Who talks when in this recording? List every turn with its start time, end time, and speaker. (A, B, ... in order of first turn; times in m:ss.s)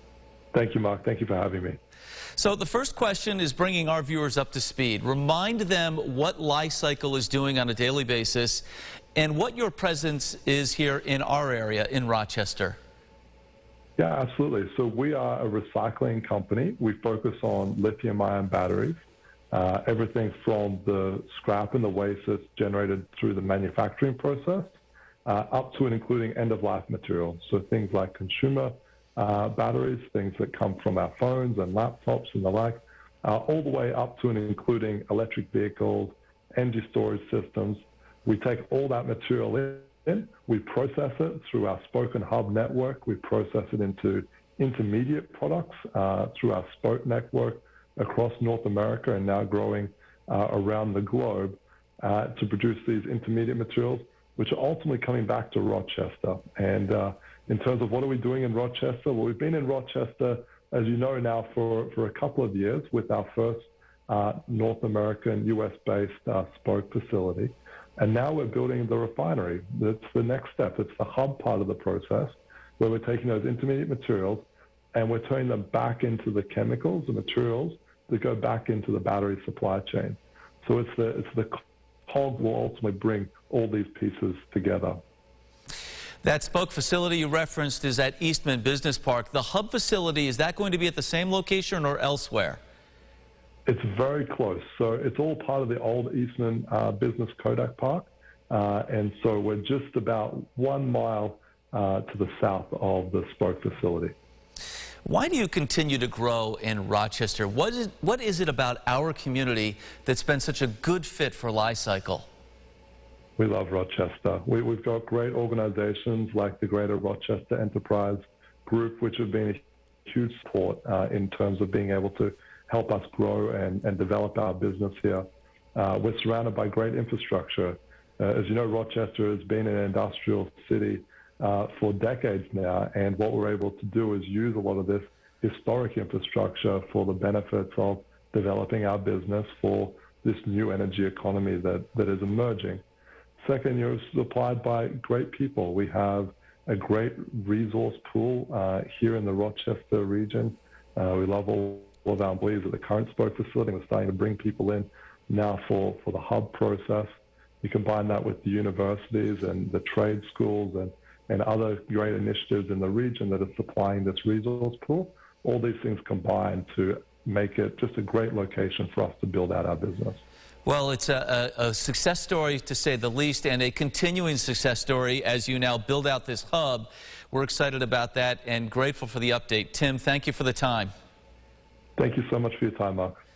0:00.5-0:01.8 A
0:02.4-0:08.6 B
0:09.1-0:12.8 B
0:14.0-0:19.0 A
0:19.5-0:24.7 A
0:25.2-1:25.0 A
1:26.2-1:32.6 B
1:33.6-1:44.1 A
1:45.0-1:52.3 B
1:53.4-2:22.8 A
2:23.4-2:37.1 A
2:37.6-2:50.2 A
2:50.6-3:00.9 B
3:02.0-3:03.1 A